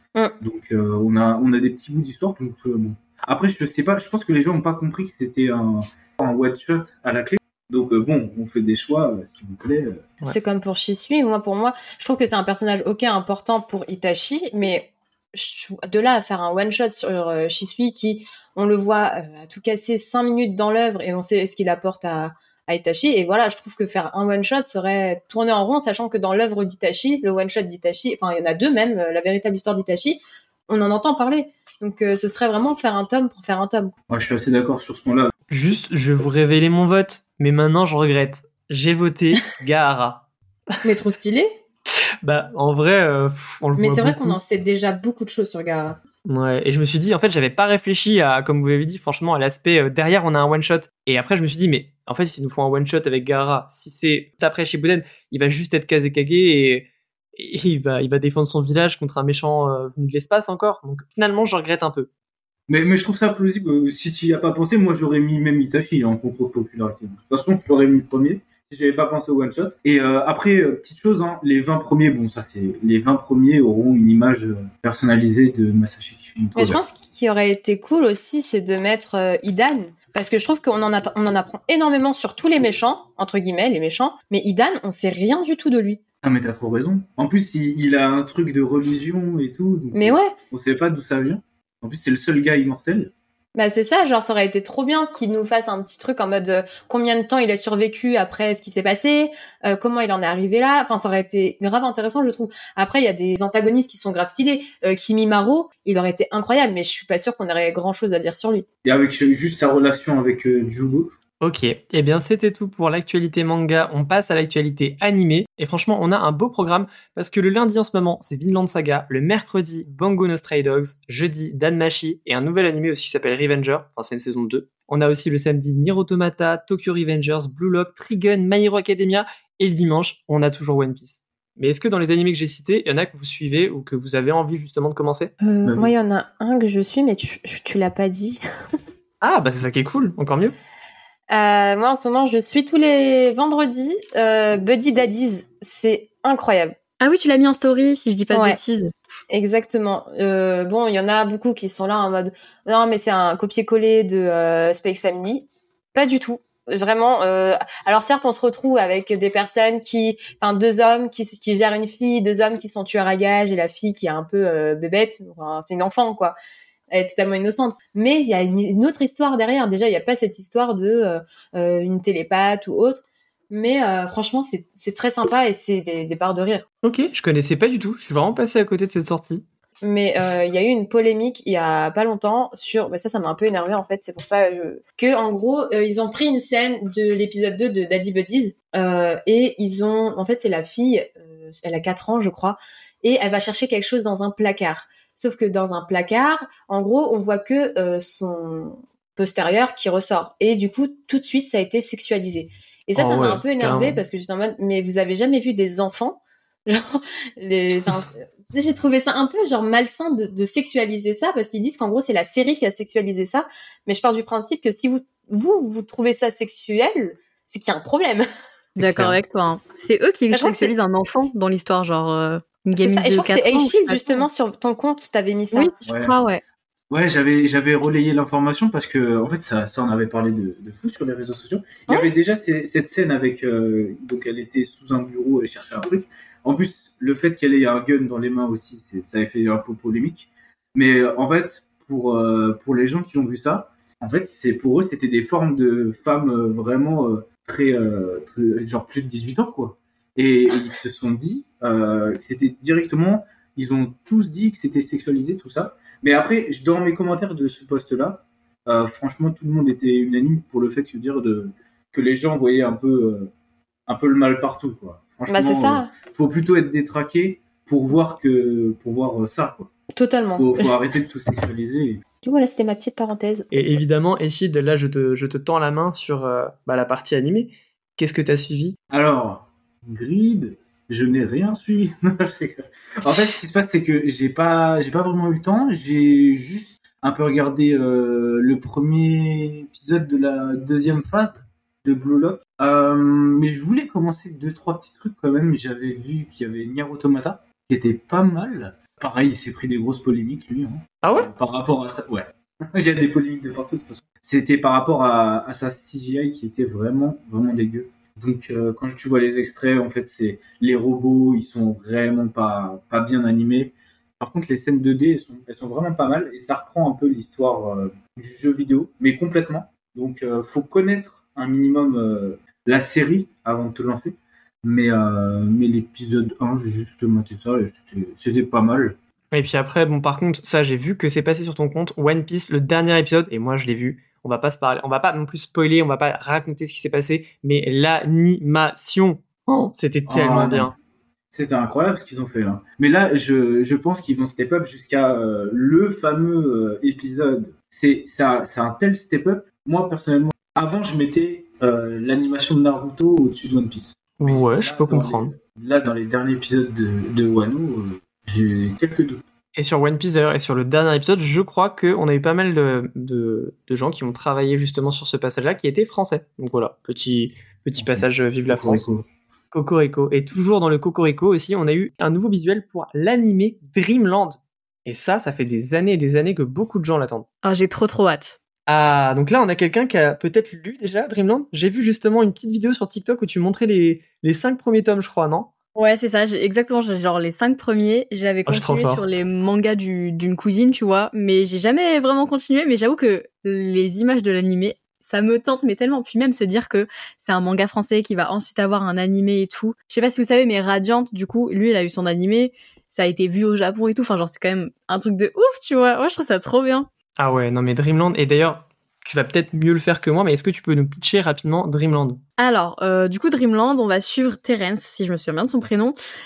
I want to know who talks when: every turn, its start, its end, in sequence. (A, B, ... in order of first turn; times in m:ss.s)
0:00.4-0:10.2 A
0:10.2-0:33.9 B
0:34.1-0:35.3 A
0:35.5-0:40.8 C
0:40.8-0:41.5 B
0:42.2-0:44.4 C
0:43.8-0:46.0 B
0:46.2-1:02.1 C
1:02.7-1:16.8 A
1:16.5-1:26.0 B
1:26.2-1:33.1 A
1:29.9-1:30.4 B
1:33.5-1:48.6 B
1:48.8-1:51.1 A
1:51.4-2:15.3 C
2:15.4-2:18.4 B
2:15.6-2:15.9 A
2:19.2-2:20.5 C
2:21.3-2:26.7 B
2:27.0-2:28.9 D
2:28.3-2:28.6 B
2:29.3-2:46.4 B
2:46.9-2:56.6 B
2:56.8-2:59.4 C
2:59.8-3:38.3 B
3:22.9-3:24.0 C
3:38.8-3:44.3 D
3:38.8-3:39.2 C
3:40.3-3:40.7 B
3:42.8-3:45.7 B
3:45.5-3:46.4 D
3:45.8-3:46.1 A
3:46.9-4:23.3 A
4:23.9-4:29.7 A
4:25.3-4:25.9 B
4:29.9-4:30.8 B
4:30.4-4:32.0 A
4:32.2-4:33.8 B
4:33.5-4:38.8 C
4:38.9-5:29.0 A
5:01.0-5:01.3 C
5:29.3-5:40.7 C
5:40.1-5:40.7 A
5:41.3-5:59.2 A
5:54.2-5:55.3 C
5:59.5-6:08.9 C
6:07.8-6:09.0 A
6:09.5-6:17.3 C
6:17.4-6:18.4 D
6:18.7-6:25.5 C
6:25.8-6:46.9 D
6:28.4-6:29.0 C
6:47.2-6:52.2 C
6:52.4-6:56.0 D